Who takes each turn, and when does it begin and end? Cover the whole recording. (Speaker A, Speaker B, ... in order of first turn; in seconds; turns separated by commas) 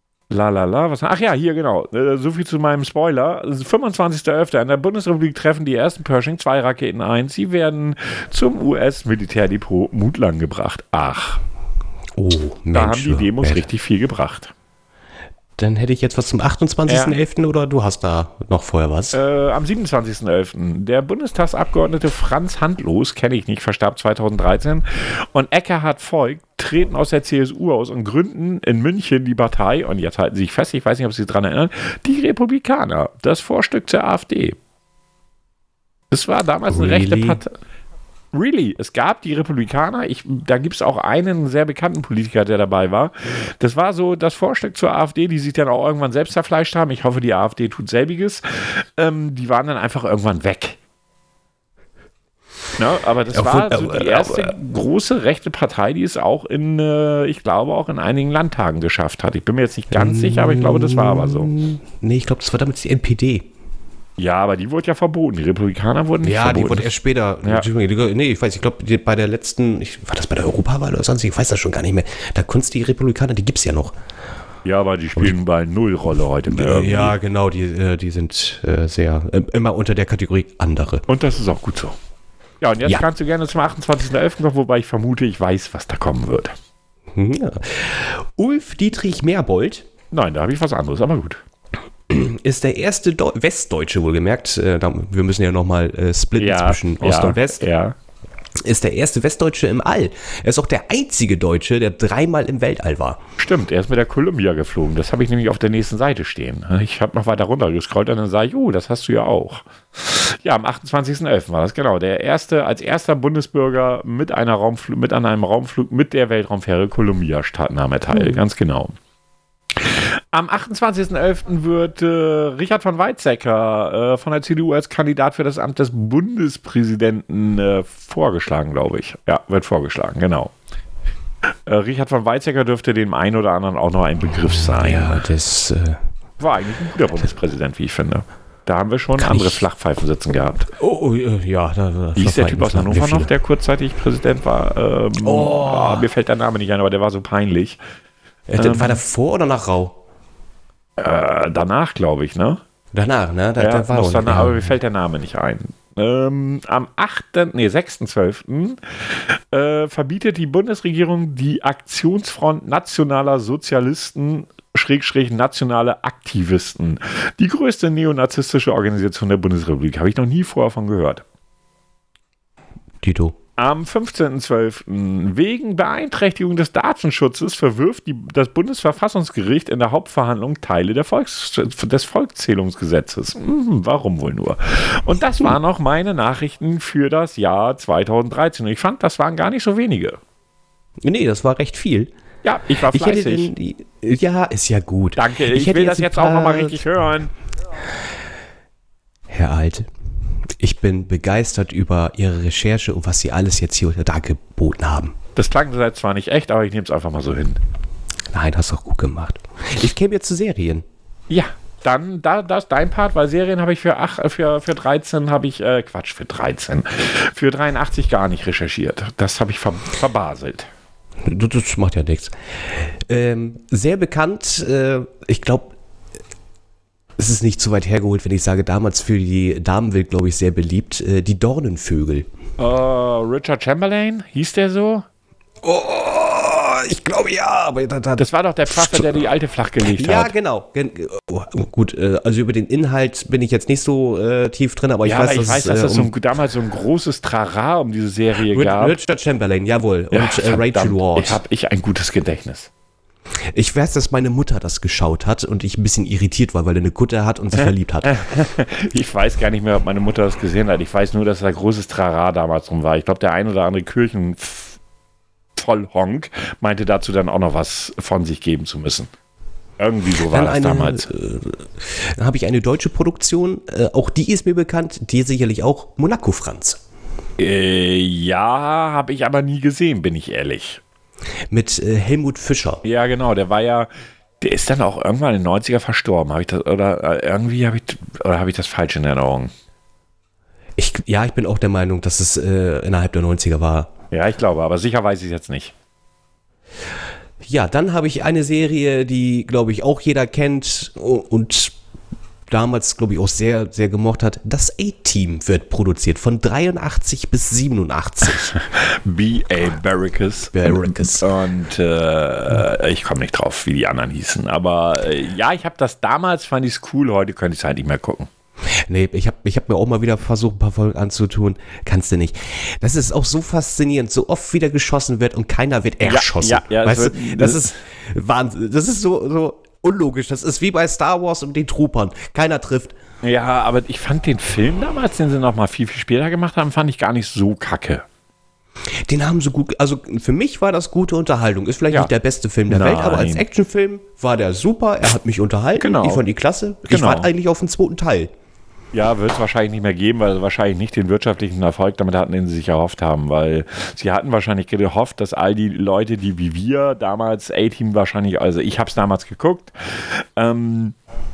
Speaker A: 0.3-11.4, Speaker B: 12.2-13.6, Speaker A: 12.7-14.5, Speaker B: 15.6-19.2, Speaker A: 16.9-17.2, Speaker A: 19.1-34.6, Speaker A: 36.1-37.5, Speaker B: 36.7-37.4, Speaker A: 38.3-50.8, Speaker A: 52.8-61.5, Speaker B: 53.3-54.5, Speaker B: 59.9-63.5, Speaker A: 64.2-66.9, Speaker B: 66.2-74.0, Speaker A: 74.7-77.2, Speaker B: 76.5-81.0, Speaker A: 81.1-82.0, Speaker A: 82.6-86.5, Speaker B: 87.2-89.9, Speaker A: 90.1-91.4, Speaker B: 92.1-97.7, Speaker A: 96.4-98.0, Speaker B: 98.6-103.2, Speaker A: 103.4-118.9, Speaker B: 118.1-118.4, Speaker A: 119.7-130.5, Speaker A: 131.7-135.3, Speaker B: 134.4-136.0, Speaker A: 136.4-140.7, Speaker B: 139.2-139.6, Speaker B: 140.7-143.3, Speaker A: 142.2-147.8, Speaker B: 145.2-146.1, Speaker B: 148.5-150.0, Speaker A: 148.6-149.0, Speaker A: 151.0-152.6, Speaker B: 152.9-154.7, Speaker A: 153.6-171.2, Speaker B: 173.0-173.3, Speaker A: 173.6-190.2, Speaker B: 191.0-192.1, Speaker A: 192.4-193.5, Speaker B: 192.9-196.8, Speaker A: 195.2-197.3, Speaker B: 199.3-205.2, Speaker A: 205.4-207.6, Speaker B: 208.3-210.8, Speaker A: 211.3-220.7, Speaker B: 221.2-225.8, Speaker B: 227.2-232.3, Speaker A: 232.6-235.1, Speaker B: 235.6-239.1, Speaker A: 238.2-240.3, Speaker B: 239.8-246.1, Speaker A: 245.1-249.0, Speaker B: 248.4-251.4, Speaker A: 250.1-252.7, Speaker B: 253.5-258.1, Speaker A: 257.6-264.8, Speaker A: 265.6-269.1, Speaker A: 269.8-271.1, Speaker B: 270.3-276.8, Speaker A: 277.4-280.8, Speaker B: 281.5-282.8, Speaker A: 282.8-283.9, Speaker A: 284.4-289.5, Speaker B: 290.8-293.9, Speaker A: 294.1-295.7, Speaker B: 297.4-301.8, Speaker B: 302.5-308.5, Speaker A: 308.5-318.3, Speaker B: 310.5-311.2, Speaker B: 318.7-332.9, Speaker A: 326.0-327.7, Speaker A: 333.2-338.1, Speaker B: 338.9-348.3, Speaker A: 342.7-343.4, Speaker A: 345.8-346.2, Speaker A: 346.9-347.3, Speaker A: 348.9-361.0